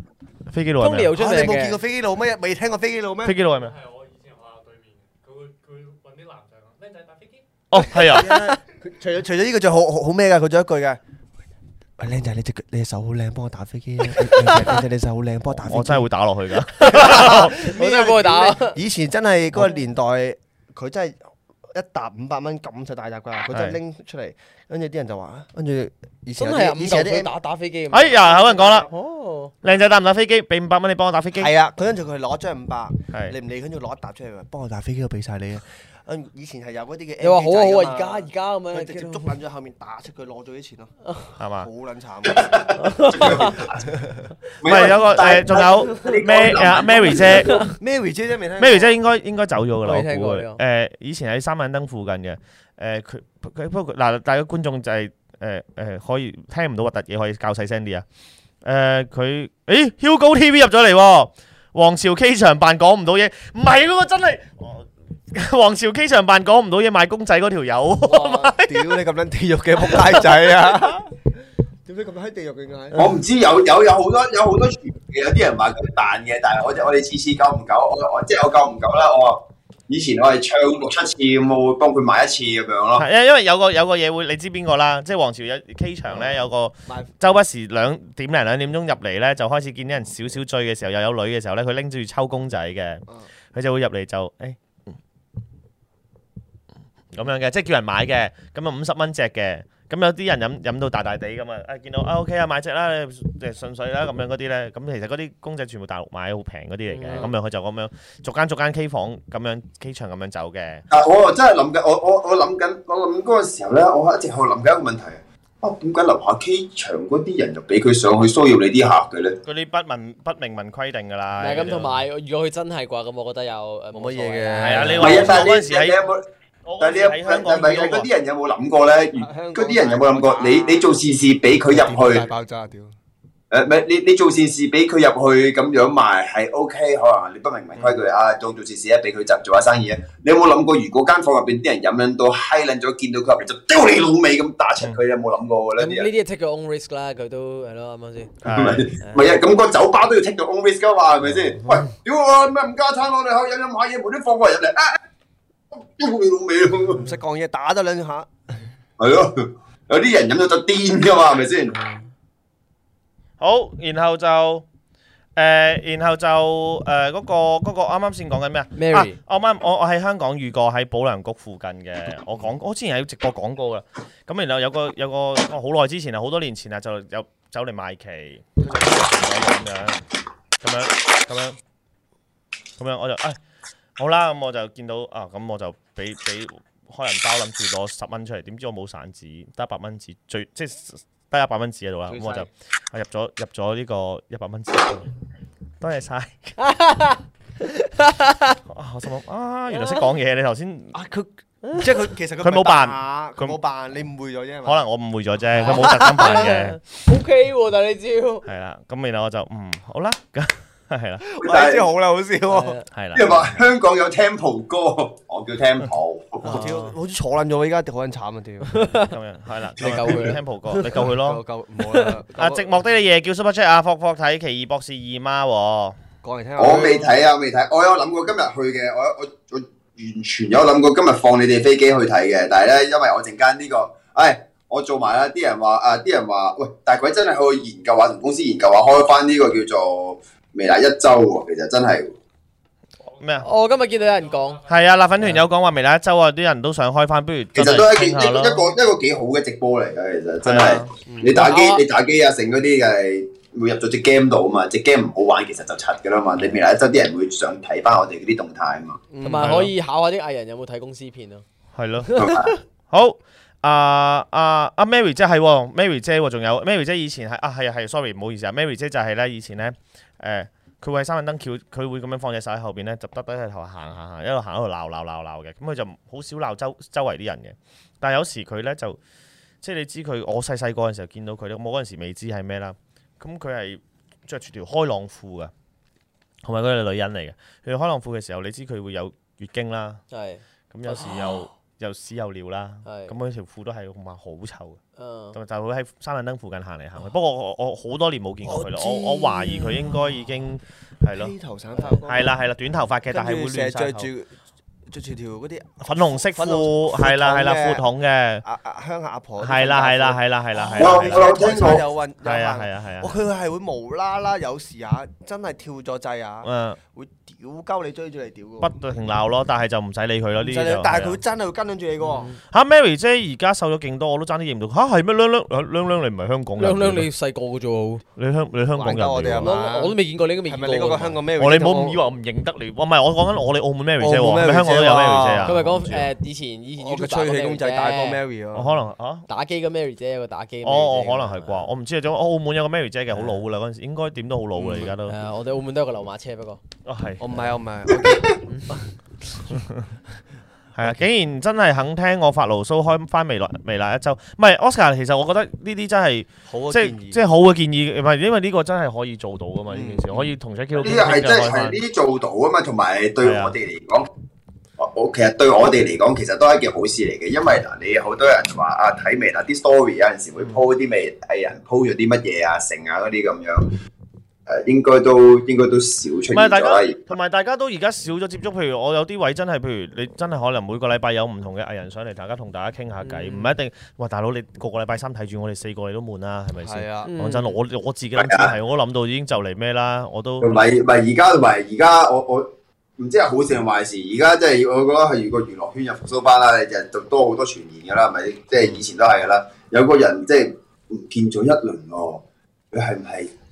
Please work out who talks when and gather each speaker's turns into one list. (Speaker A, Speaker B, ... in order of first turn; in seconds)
Speaker A: 0.5-1.1, 3.2-3.7, 7.7-8.5, 15.5-17.5, 23.5-23.8, 27.9-28.9, 29.6-31.5, 41.4-41.7, 44.6-47.7, 48.6-58.0, 58.6-69.0, 69.9-70.2, 82.9-94.6, 97.1-110.8, 119.4-122.0, 124.6-126.0, 126.6-128.1, 148.4-148.9, 163.4-164.7, 165.3-180.0, 180.6-181.6, 182.8-183.4, 184.0-195.1, 195.8-196.6, 198.7-201.0, 202.4-203.6, 204.6-206.8, 208.4-211.2, 212.9-213.5, 219.1-221.4, 222.3-226.0, 243.2-243.5, 244.7-248.7, 250.4-250.9, 259.4-259.7, 261.7-262.2, 262.9-279.0, 279.6-285.5, 286.4-290.0, 290.7-294.8, 295.3-301.3, 302.1-304.1, 305.8-308.4, 309.4-313.1, 316.4-316.8, 318.6-321.2, 322.5-327.1, 328.2-329.5, 331.4-336.1, 338.5-339.3, 340.6-345.1, 346.9-347.5, 349.5-349.9, 350.7-361.8, 363.2-363.5, 376.3-390.5
Speaker B: 0.8-1.8, 8.3-8.6, 14.2-14.8, 16.8-18.8, 26.4-28.2, 28.9-29.5, 37.2-39.4, 42.8-43.6, 49.8-50.6, 106.9-107.3, 121.4-125.3, 145.8-148.3, 149.0-149.4, 168.8-169.2, 196.6-198.6, 199.7-200.0, 201.7-201.9, 205.5-208.4, 212.5-212.8, 216.4-216.9, 218.7-219.1, 219.8-221.0, 221.8-222.2, 243.4-244.6, 251.3-251.8, 259.2-261.4, 262.1-262.5, 290.1-291.4, 292.8-293.1, 294.9-295.4, 301.8-302.0, 322.0-322.4, 326.6-328.0, 329.4-331.2, 335.4-338.2, 339.3-341.7, 345.1-346.6, 348.4-348.8, 383.0-383.5, 387.0-387.6
Speaker C: 1.1-3.4, 7.8-11.0, 12.0-16.1, 16.8-21.2, 21.7-27.3, 28.2-28.9, 31.4-40.9, 41.5-44.1, 47.7-49.0, 68.0-71.1, 71.8-73.1, 86.1-87.1, 123.9-125.4, 129.2-130.9, 131.7-132.9, 156.9-158.6, 192.1-192.5, 200.9-204.8, 205.6-206.4, 211.2-212.8, 216.4-219.1, 219.8-222.7, 226.2-227.2, 251.1-251.4, 259.1-259.5, 298.4-299.9, 301.1-302.3, 303.1-304.3, 304.9-307.8, 308.4-318.7, 320.4-322.4, 328.8-329.9, 330.5-332.0, 334.0-335.7, 336.8-338.7, 344.6-344.9, 347.2-348.4, 356.5-357.2, 359.7-360.3, 386.6-387.1
Speaker D: 3.5-7.5, 243.1-245.0
Speaker E: 42.3-43.9, 44.6-47.6, 72.9-83.0, 110.9-119.4, 125.0-126.2, 126.8-132.2, 133.5-146.1, 148.5-155.0, 155.7-157.1, 159.0-161.8, 211.4-211.9, 213.1-216.6, 226.6-242.2, 247.5-259.0, 262.1-262.6, 310.8-311.8, 360.8-364.1, 364.8-373.7, 374.5-377.0, 388.1-388.5, 390.4-403.3